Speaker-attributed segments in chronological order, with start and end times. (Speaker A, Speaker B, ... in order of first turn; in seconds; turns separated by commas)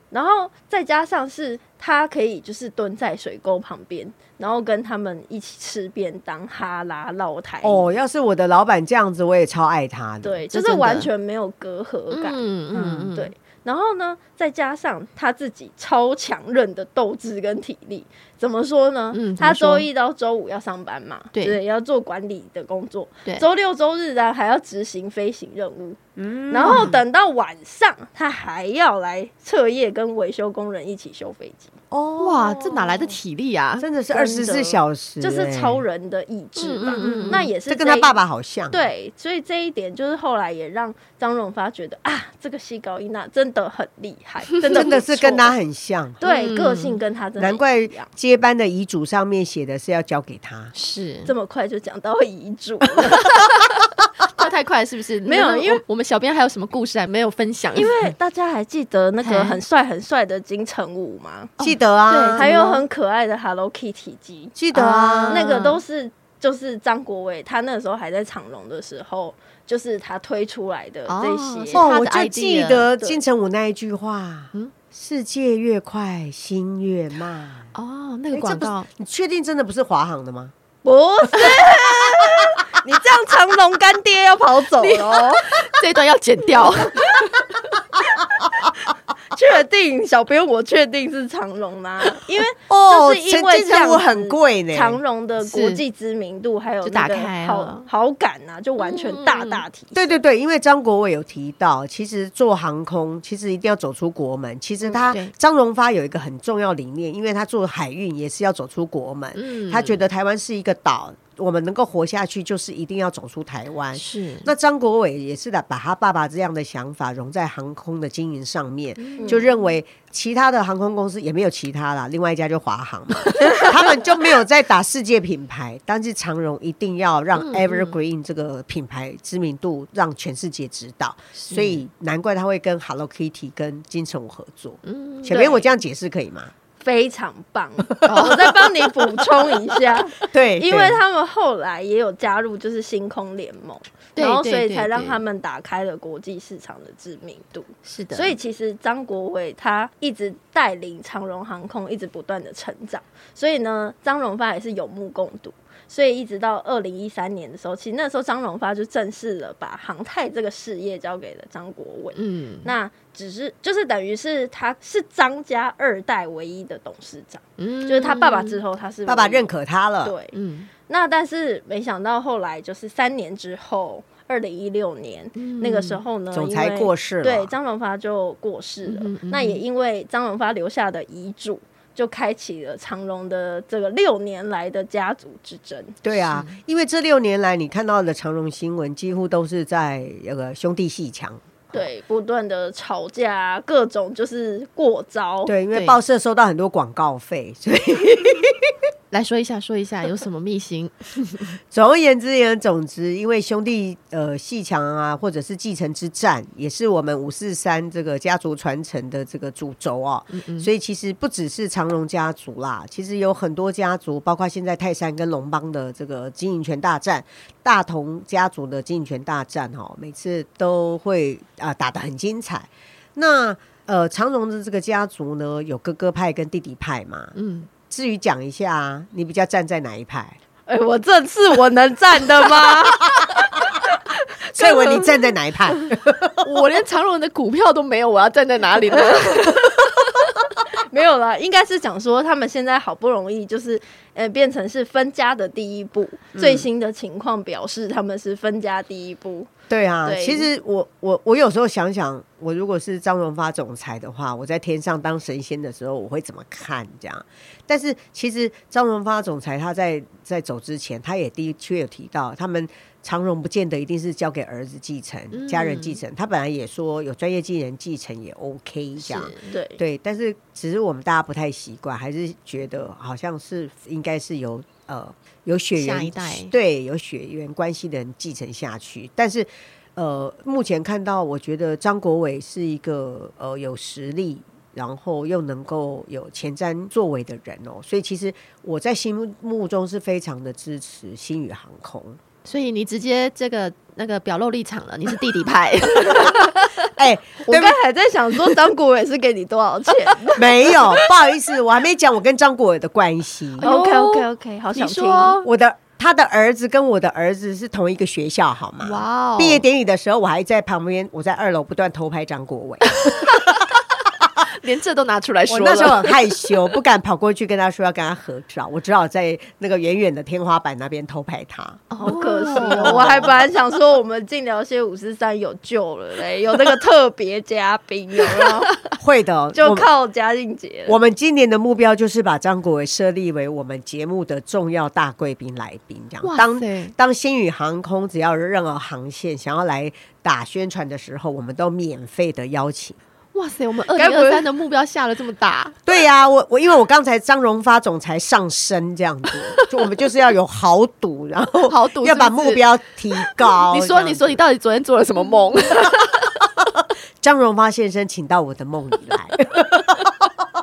Speaker A: 0.1-7.9, Speaker B: 7.6-10.4, Speaker A: 10.2-12.4, Speaker C: 10.5-11.1, Speaker C: 12.1-13.3, Speaker B: 12.7-13.1, Speaker A: 13.1-26.0, Speaker C: 19.1-19.9, Speaker B: 26.2-27.0, Speaker A: 26.5-31.7, Speaker C: 26.6-26.9, Speaker B: 31.9-33.1, Speaker C: 32.2-33.9, Speaker B: 33.8-35.8, Speaker A: 34.1-45.5, Speaker C: 36.6-37.5, Speaker B: 36.9-38.9, Speaker B: 44.7-46.2, Speaker A: 46.2-48.1, Speaker C: 46.2-47.0, Speaker B: 47.4-50.7, Speaker C: 50.7-51.3, Speaker A: 51.3-53.3, Speaker C: 54.4-57.9, Speaker A: 55.3-55.8, Speaker A: 57.8-61.5, Speaker C: 59.2-59.6, Speaker B: 61.6-62.5, Speaker C: 61.6-62.8, Speaker A: 62.4-64.5, Speaker B: 64.5-65.5, Speaker C: 64.7-65.8, Speaker A: 65.3-71.9, Speaker C: 71.1-72.9, Speaker B: 71.7-77.7, Speaker C: 77.8-78.9, Speaker B: 78.3-80.5, Speaker A: 80.8-85.5, Speaker B: 81.3-82.2, Speaker C: 84.8-87.4, Speaker A: 89.3-100.2, Speaker B: 92.7-95.0, Speaker C: 95.4-95.8, Speaker C: 96.8-97.9, Speaker C: 98.8-99.6, Speaker B: 99.9-136.5, Speaker C: 109.3-110.0, Speaker C: 114.0-114.5, Speaker C: 119.0-119.5, Speaker A: 119.2-119.4, Speaker C: 123.4-123.7, Speaker C: 127.4-128.0, Speaker C: 131.4-131.8, Speaker C: 134.8-135.5, Speaker A: 135.3-135.7, Speaker A: 136.8-169.5, Speaker B: 137.9-138.4, Speaker C: 138.1-138.5, Speaker B: 140.2-141.0, Speaker C: 144.2-145.2, Speaker C: 147.9-148.4, Speaker C: 162.2-162.7, Speaker C: 167.6-168.6, Speaker B: 169.1-170.1, Speaker A: 170.0-170.3, Speaker C: 170.3-170.7, Speaker A: 170.9-186.0, Speaker C: 175.4-176.0, Speaker B: 176.3-177.5, Speaker C: 178.9-179.6, Speaker B: 186.0-191.8, Speaker C: 186.2-186.6, Speaker A: 191.7-195.5, Speaker B: 195.5-198.8, Speaker C: 195.7-196.0, Speaker C: 199.1-201.5, Speaker B: 201.7-227.3, Speaker C: 210.3-210.7, Speaker C: 227.3-227.7, Speaker B: 227.9-230.4, Speaker A: 230.7-233.7, Speaker B: 234.5-236.5, Speaker A: 234.6-235.1, Speaker C: 236.4-240.1, Speaker A: 240.7-249.5, Speaker B: 246.3-246.7, Speaker B: 249.7-292.2, Speaker A: 250.1-250.5, Speaker C: 265.3-266.0, Speaker A: 269.4-269.8, Speaker C: 275.8-276.5, Speaker C: 292.4-296.9, Speaker B: 296.1-296.4, Speaker B: 297.0-297.8, Speaker A: 297.5-301.0, Speaker B: 300.4-303.7, Speaker C: 303.6-305.5, Speaker A: 303.6-305.4, Speaker B: 305.4-313.6, Speaker C: 308.8-309.6, Speaker C: 313.0-313.6, Speaker C: 314.4-316.5, Speaker B: 315.5-321.9, Speaker C: 321.9-323.3, Speaker A: 322.0-328.8, Speaker B: 322.6-323.4, Speaker B: 328.9-329.9, Speaker A: 329.5-331.0, Speaker B: 330.9-343.0, Speaker C: 336.2-336.9, Speaker C: 343.3-345.8, Speaker B: 343.9-344.5, Speaker B: 345.9-354.4, Speaker C: 351.7-352.7, Speaker C: 353.2-356.4, Speaker B: 357.2-360.3